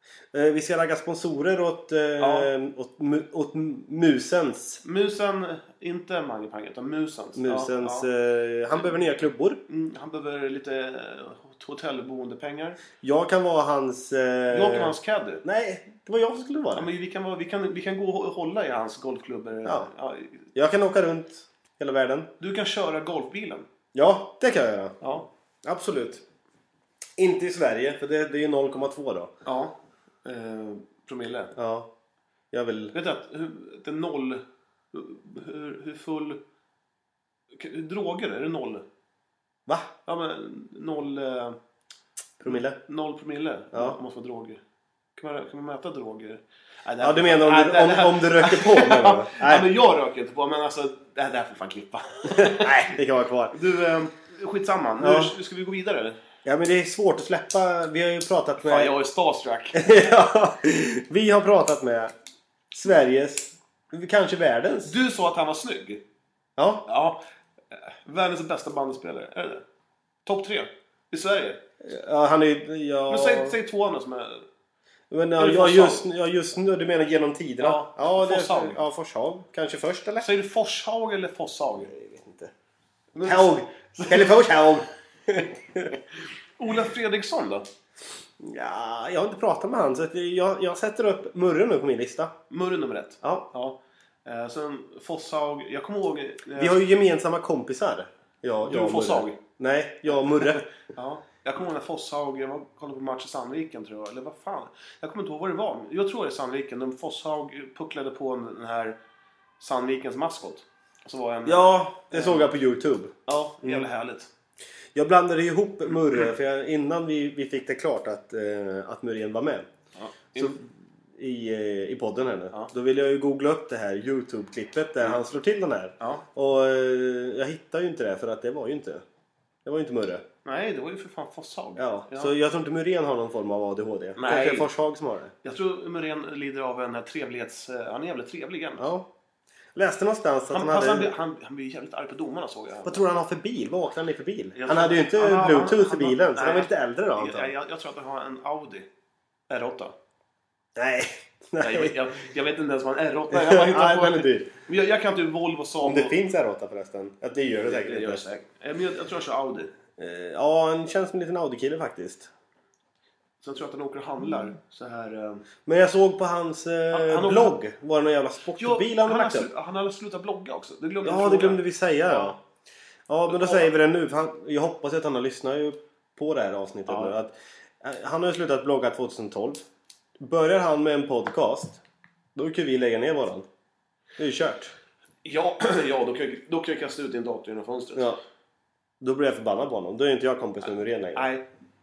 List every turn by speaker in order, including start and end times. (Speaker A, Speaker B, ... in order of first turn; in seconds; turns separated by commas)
Speaker A: 0.3-4.8, Speaker B: 2.2-2.5, Speaker B: 4.8-8.1, Speaker A: 7.3-9.6, Speaker B: 9.7-12.8, Speaker A: 13.0-16.9, Speaker B: 14.5-15.4, Speaker B: 16.7-20.5, Speaker A: 20.5-22.3, Speaker B: 22.4-23.7, Speaker A: 23.9-25.0, Speaker B: 25.0-25.3, Speaker A: 25.6-26.2, Speaker A: 27.2-29.3, Speaker B: 29.4-31.5, Speaker A: 31.5-31.9, Speaker A: 32.5-32.9, Speaker B: 32.9-36.4, Speaker B: 37.5-38.8, Speaker B: 40.0-41.6, Speaker A: 42.4-42.8, Speaker B: 42.5-44.6, Speaker A: 43.7-44.0, Speaker B: 45.1-52.7, Speaker A: 47.0-49.7, Speaker A: 52.3-53.5, Speaker B: 53.5-56.2, Speaker A: 55.0-55.3, Speaker A: 56.4-58.9, Speaker B: 58.6-60.0, Speaker A: 59.7-62.1, Speaker A: 62.7-64.9, Speaker B: 64.8-66.0, Speaker A: 66.6-66.9, Speaker B: 66.9-69.6, Speaker B: 70.2-71.6, Speaker A: 71.8-73.6, Speaker B: 73.1-74.4, Speaker A: 75.1-80.3, Speaker B: 75.4-76.0, Speaker B: 77.6-78.8, Speaker B: 80.2-81.9, Speaker A: 81.9-82.5, Speaker B: 83.1-84.6, Speaker A: 83.2-85.9, Speaker B: 86.6-87.7, Speaker A: 88.4-92.4, Speaker B: 92.5-96.8, Speaker A: 93.2-93.5, Speaker A: 96.5-100.7, Speaker B: 98.6-99.4, Speaker B: 100.9-109.0, Speaker B: 109.6-112.5, Speaker A: 111.4-113.9, Speaker B: 113.3-114.3, Speaker A: 114.9-119.7, Speaker B: 119.9-120.6, Speaker A: 120.3-120.6, Speaker A: 121.2-129.0, Speaker A: 129.6-130.2, Speaker B: 130.4-132.3, Speaker A: 131.8-135.3, Speaker B: 134.2-134.7, Speaker B: 135.4-138.9, Speaker A: 138.8-139.1, Speaker A: 139.7-141.1, Speaker B: 140.5-143.0, Speaker A: 142.8-147.5, Speaker B: 144.5-148.9, Speaker B: 149.5-149.9, Speaker A: 150.7-152.0, Speaker B: 151.6-156.2, Speaker A: 153.3-154.5, Speaker A: 155.8-158.2, Speaker B: 157.6-159.7, Speaker A: 160.0-162.3, Speaker B: 163.4-165.4, Speaker A: 165.6-169.5, Speaker B: 166.9-167.6, Speaker B: 168.6-172.3, Speaker A: 171.0-172.4, Speaker A: 173.1-179.6, Speaker B: 173.3-173.7, Speaker B: 176.9-177.2, Speaker A: 180.2-181.8, Speaker A: 182.3-183.5, Speaker A: 184.2-184.7, Speaker B: 185.2-188.2, Speaker A: 187.9-188.2, Speaker A: 189.0-191.3, Speaker B: 191.1-191.5